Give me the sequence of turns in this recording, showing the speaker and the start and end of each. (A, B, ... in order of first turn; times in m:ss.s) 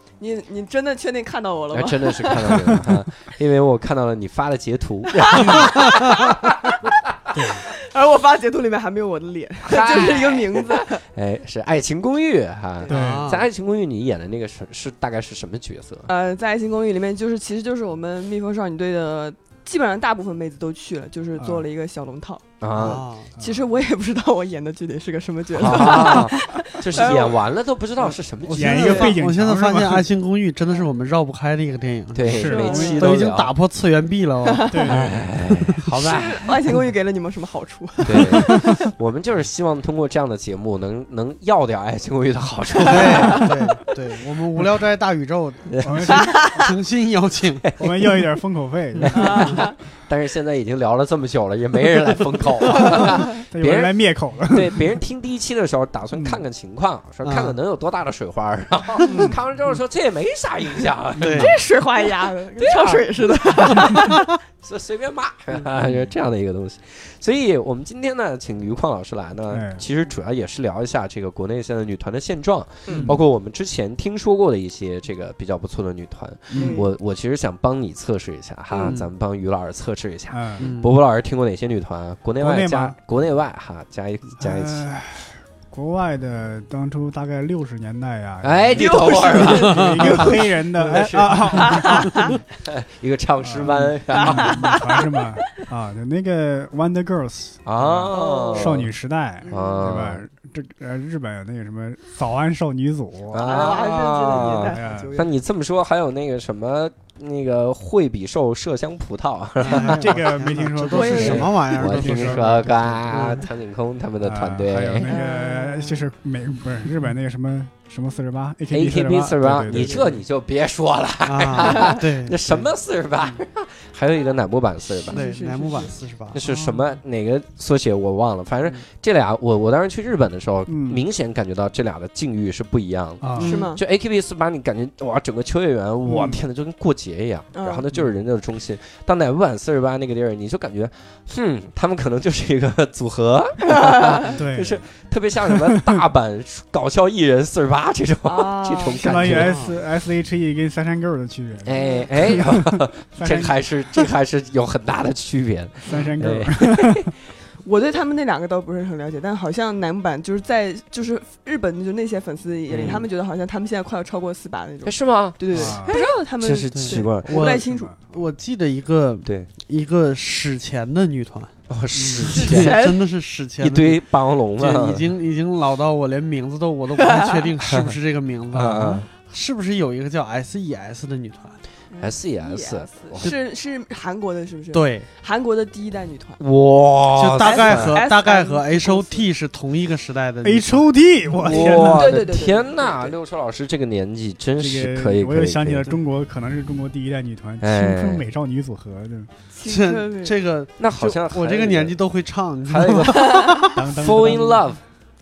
0:00.2-0:02.6 A
0:01.7-0:07.2 B
0:05.3-0:06.1 A
0:05.4-0:05.7 C
0:07.3-0:07.7 C
0:07.6-0:11.0 A
0:09.6-0:16.1 B
0:12.9-0:13.3 C
0:12.9-0:13.4 D
0:16.1-0:22.5 A
0:21.4-0:21.6 C
0:22.6-0:23.0 B
0:22.8-0:23.3 D
0:23.4-0:23.6 C
0:23.4-0:27.4 A
0:25.6-0:29.1 B
0:28.0-0:34.8 D
0:28.5-0:30.1 C
0:32.1-0:33.5 B
0:32.2-0:33.1 C
0:32.4-0:33.0 A
0:34.4-0:35.1 A
0:34.7-0:35.2 C
0:34.9-0:36.5 B
0:35.5-0:36.0 D
0:36.0-0:38.8 A
0:38.0-0:43.5 B
0:38.4-0:38.6 C
0:42.8-0:48.1 D
0:42.9-0:43.5 A
0:45.7-0:46.2 B
0:45.8-0:46.4 C
0:46.1-0:46.7 A
0:47.8-0:49.6 C
0:49.0-1:01.6 B
0:49.1-0:49.7 A
0:53.4-0:54.8 C
0:56.2-0:56.4 C
0:57.2-0:57.5 D
0:59.0-0:59.4 C
1:01.2-1:01.6 D
1:01.4-1:04.2 A
1:02.6-1:24.9 B
1:09.5-1:09.8 C
1:12.9-1:13.2 C
1:16.5-1:16.8 D
1:16.6-1:16.9 A
1:18.7-1:19.0 A
1:20.3-1:20.7 C
1:20.6-1:20.9 D
1:22.4-1:22.9 C
1:24.4-1:32.4 C
1:28.4-1:34.6 B
1:28.7-1:30.0 A
1:29.6-1:31.4 D
1:31.7-1:32.3 A
1:33.4-1:43.5 C
1:34.2-1:35.2 A
1:37.6-1:38.9 B
1:38.1-1:38.8 A
1:39.4-1:39.8 A
1:39.5-1:40.2 B
1:43.3-1:50.2 B
1:43.4-1:45.3 A
1:44.4-1:45.1 C
1:49.6-1:53.4 D
1:49.8-1:53.0 C
1:50.9-1:51.8 A
1:51.0-1:55.2 B
1:54.2-2:00.1 C
1:55.0-1:56.0 A
1:58.7-2:05.2 B
2:01.2-2:02.7 D
2:05.1-2:05.9 A
2:05.1-2:06.4 D
2:06.3-2:29.6 B
2:06.4-2:06.8 C
2:10.7-2:11.0 C
2:13.2-2:13.6 C
2:13.4-2:13.7 D
2:13.4-2:13.8 A
2:16.1-2:16.4 C
2:17.5-2:17.8 A
2:24.3-2:24.8 C
2:28.2-2:29.2 A
2:29.0-2:33.6 C
2:29.1-2:29.8 D
2:31.6-2:37.1 B
2:31.8-2:32.0 A
2:35.9-2:37.1 C
2:37.6-2:47.9 A
2:42.7-2:43.0 B
2:44.8-2:47.4 B
2:45.5-2:45.9 C
2:46.7-2:54.0 D
2:47.6-2:48.0 C
2:49.2-2:49.5 B
2:51.7-2:52.8 B
2:52.3-2:53.0 A
2:53.6-2:55.1 B
2:54.6-3:01.6 D
2:57.0-2:57.5 A
2:57.6-2:57.9 B
2:58.5-2:59.0 B
3:01.9-3:06.4 A
3:02.0-3:03.3 B
3:04.7-3:05.0 D
3:06.4-3:08.0 B
3:07.1-3:10.8 D
3:07.4-3:09.2 A
3:10.4-3:12.2 C
3:11.4-3:15.9 B
3:11.8-3:13.2 A
3:14.6-3:19.3 C
3:17.6-3:18.2 B
3:19.5-3:20.3 A
3:19.6-3:23.7 D
3:20.8-3:22.0 B
3:22.6-3:24.8 B
3:23.7-3:24.6 C